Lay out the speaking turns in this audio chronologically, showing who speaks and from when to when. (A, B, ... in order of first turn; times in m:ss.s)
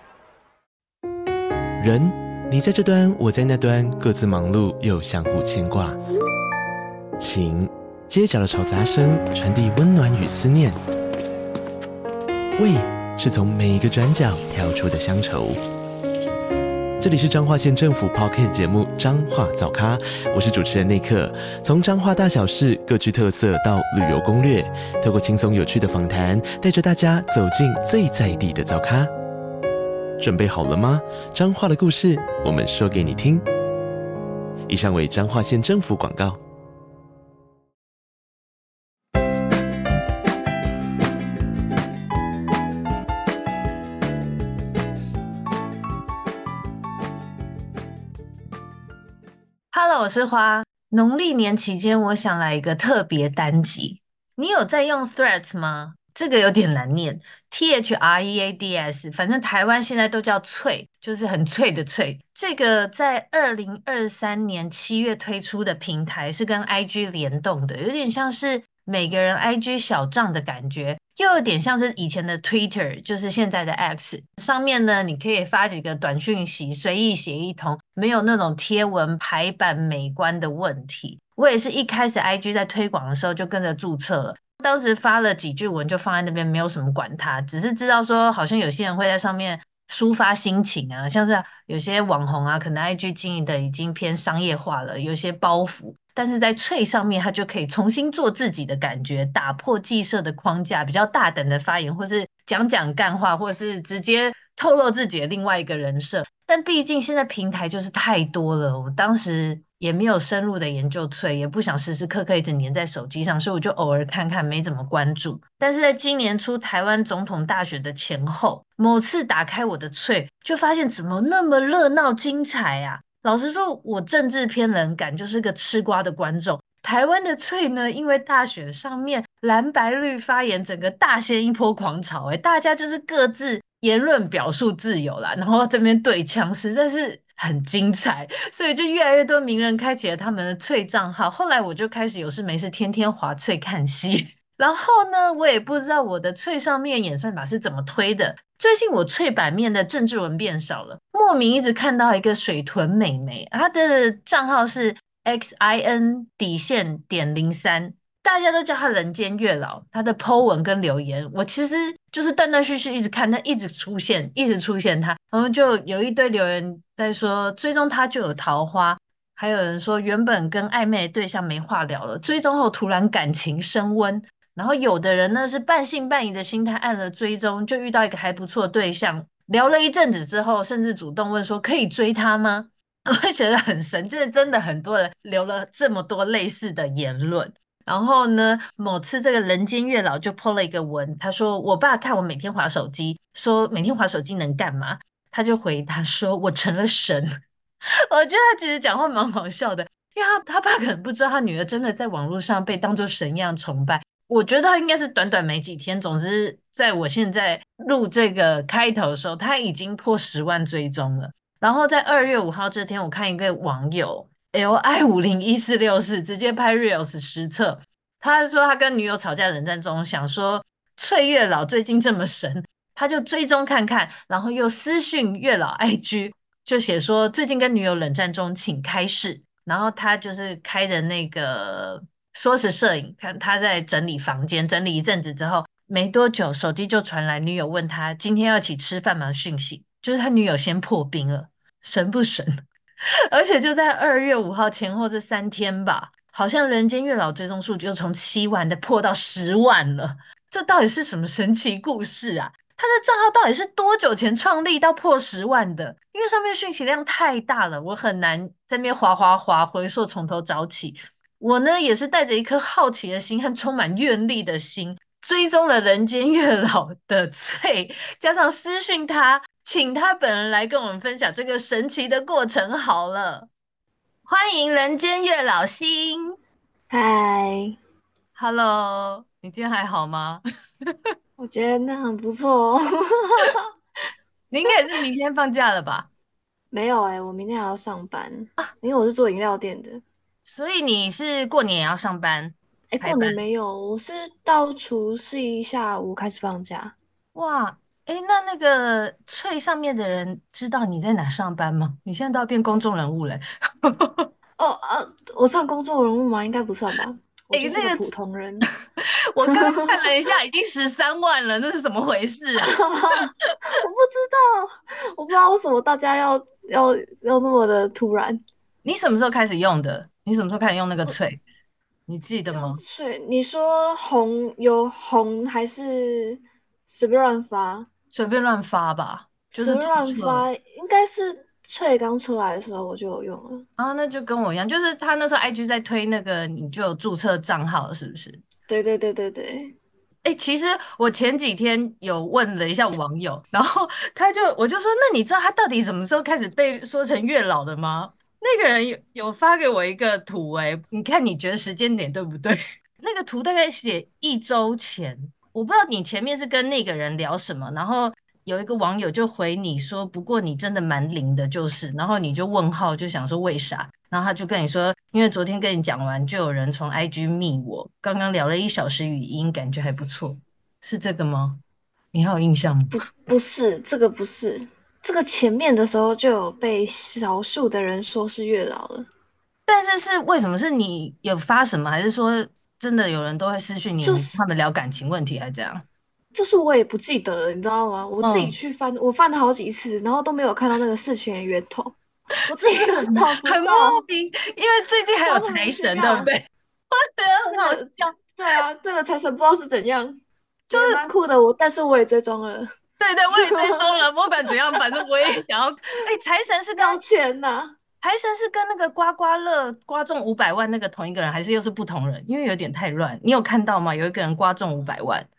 0:01.8-0:06.0 A
0:07.2-0:10.8 A
0:12.6-0:15.6 A
0:17.0-0:29.1 A
0:30.2-0:33.4 A
0:34.7-0:36.4 A
0:49.7-3:17.3 B
3:18.1-4:02.5 B
4:03.3-4:33.5 B
4:34.3-4:36.4 B
4:36.9-4:37.8 C
4:38.4-4:40.9 B
4:41.4-4:43.7 C
4:44.5-4:46.1 B
4:46.7-4:50.0 C
4:50.5-4:53.4 B
4:52.9-4:57.0 C
4:57.4-5:04.3 B
5:04.6-5:08.7 C
5:07.5-5:08.1 B
5:09.3-5:12.8 B
5:09.5-5:10.0 C
5:12.6-5:18.4 C
5:18.8-5:21.4 B
5:22.1-5:22.8 B
5:22.5-5:27.9 C
5:28.1-5:30.5 B
5:29.5-5:33.6 C
5:33.8-5:38.4 B
5:38.7-5:39.8 C
5:40.2-6:11.6 B
6:12.1-6:13.0 B
6:12.9-6:19.1 C
6:19.7-6:25.8 B
6:24.0-6:24.4 C
6:26.4-6:34.0 C
6:28.2-6:28.6 B
6:32.7-6:36.4 B
6:35.2-6:36.3 C
6:37.1-6:38.2 B
6:37.5-6:40.2 C
6:40.7-6:41.1 B
6:40.7-6:42.7 C
6:43.0-6:47.0 B
6:43.3-6:44.0 C
6:44.5-6:45.4 C
6:46.8-6:47.8 C
6:48.0-6:55.3 B